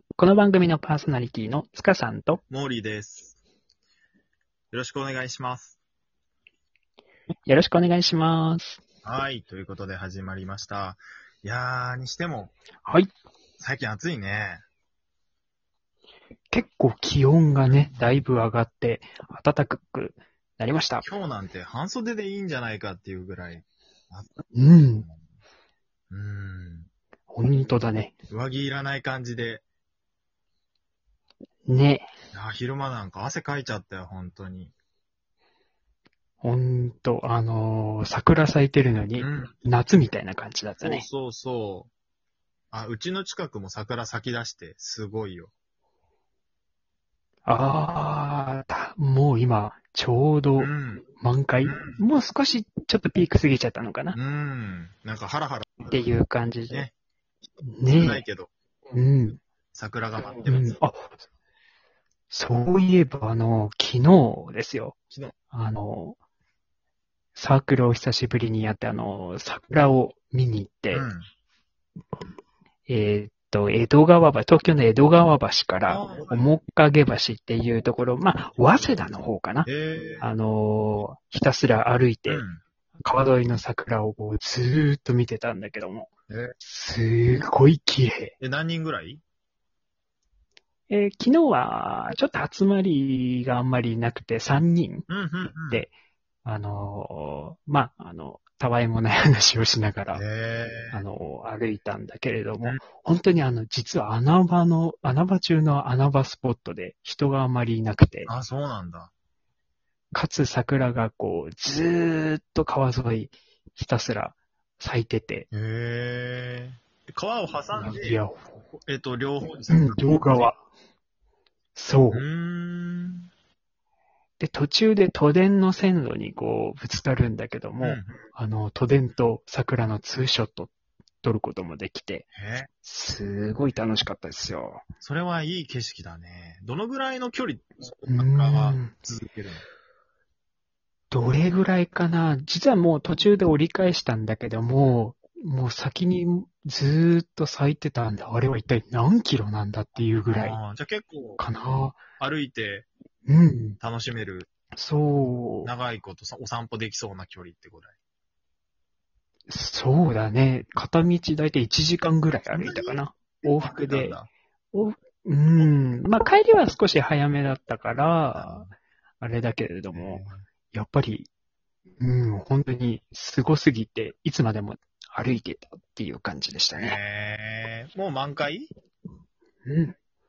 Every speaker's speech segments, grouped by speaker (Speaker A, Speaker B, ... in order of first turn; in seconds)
Speaker A: 0.1-2.4, 7.5-8.8, 16.5-21.1, 24.5-25.1, 27.3-28.1, 31.7-32.1, 36.4-41.0, 47.5-54.2, 55.8-56.9, 57.6-58.2, 58.9-59.4, 60.5-61.1, 62.3-65.0, 65.5-66.2, 67.3-71.0, 72.9-79.7, 80.2-82.4, 83.0-86.1, 86.6-88.3, 90.9-95.1, 96.4-100.2, 100.9-108.3, 110.1-115.5, 117.7-118.4, 119.7-120.6, 121.8-122.2, 124.4-130.7, 131.2-132.3, 132.8-134.8, 138.1-138.9, 141.1-150.6, 151.4-152.0, 153.3-153.8, 154.8-155.7, 159.5-164.2, 164.7-171.3, 172.0-177.0, 179.6-179.9
Speaker B: 2.5-3.4, 4.7-5.8, 9.0-12.5, 13.6-14.6, 21.0-25.2, 26.1-26.9, 28.3-29.6, 32.3-34.7, 39.2-39.6, 40.8-41.9, 42.7-45.5, 50.6-51.0, 51.6-52.0, 54.1-55.9, 57.9-58.5, 59.7-60.8, 70.9-71.2, 75.9-76.5, 79.7-80.3, 82.3-82.6, 86.3-86.5, 88.4-89.2, 95.1-95.8, 100.1-101.0, 108.3-109.1, 115.5-118.2, 118.8-120.5, 122.1-123.3, 127.8-128.2, 132.3-132.7, 135.0-139.6, 150.3-151.4, 152.2-152.8, 153.8-154.5, 155.6-157.9, 162.5-164.3, 168.3-168.7, 169.9-170.4, 176.7-178.7